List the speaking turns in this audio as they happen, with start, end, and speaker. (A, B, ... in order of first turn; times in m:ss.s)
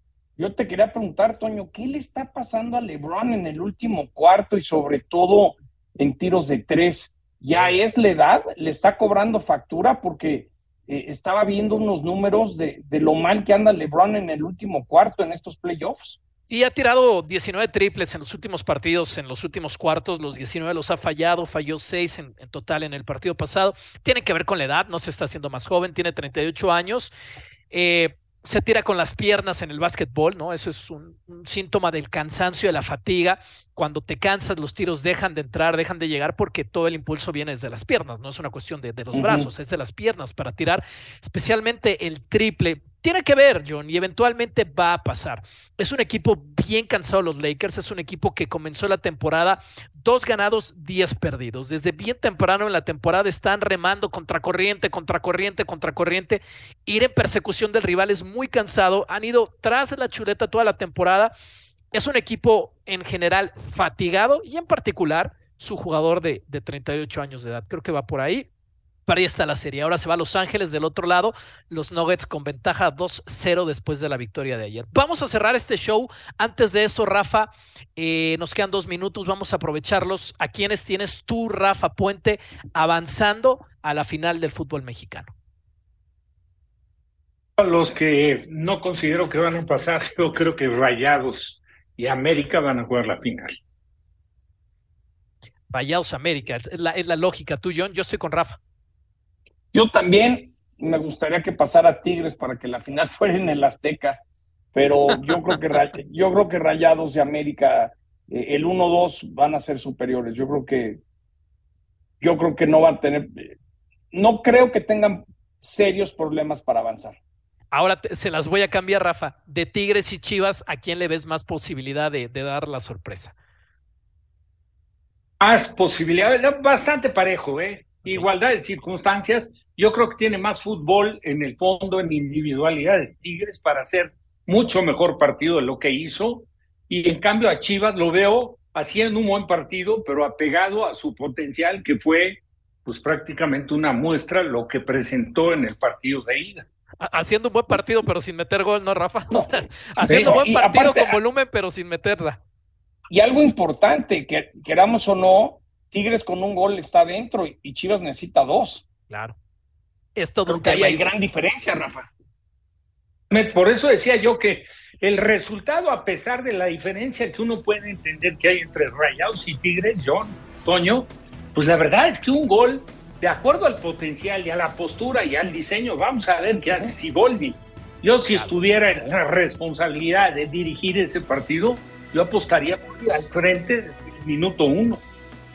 0:00.4-0:16.2 A
0:07.5-0:07.8 B
0:16.5-0:27.1 B
0:27.7-1:01.3 B
0:39.1-0:39.5 A
1:01.9-1:08.5 B
1:09.1-1:25.3 B
1:27.6-1:33.6 C
1:35.7-1:38.6 B
1:39.7-1:44.2 A
1:44.7-1:51.0 A
1:52.2-1:53.6 A
1:54.1-1:57.2 A
1:57.7-2:03.3 B
2:05.4-2:26.6 C
2:27.0-2:32.4 B
2:29.3-2:31.2 A
2:33.1-2:38.8 A
2:39.1-2:39.4 B
2:40.2-2:41.1 B
2:40.5-2:42.1 A
2:43.3-3:05.0 C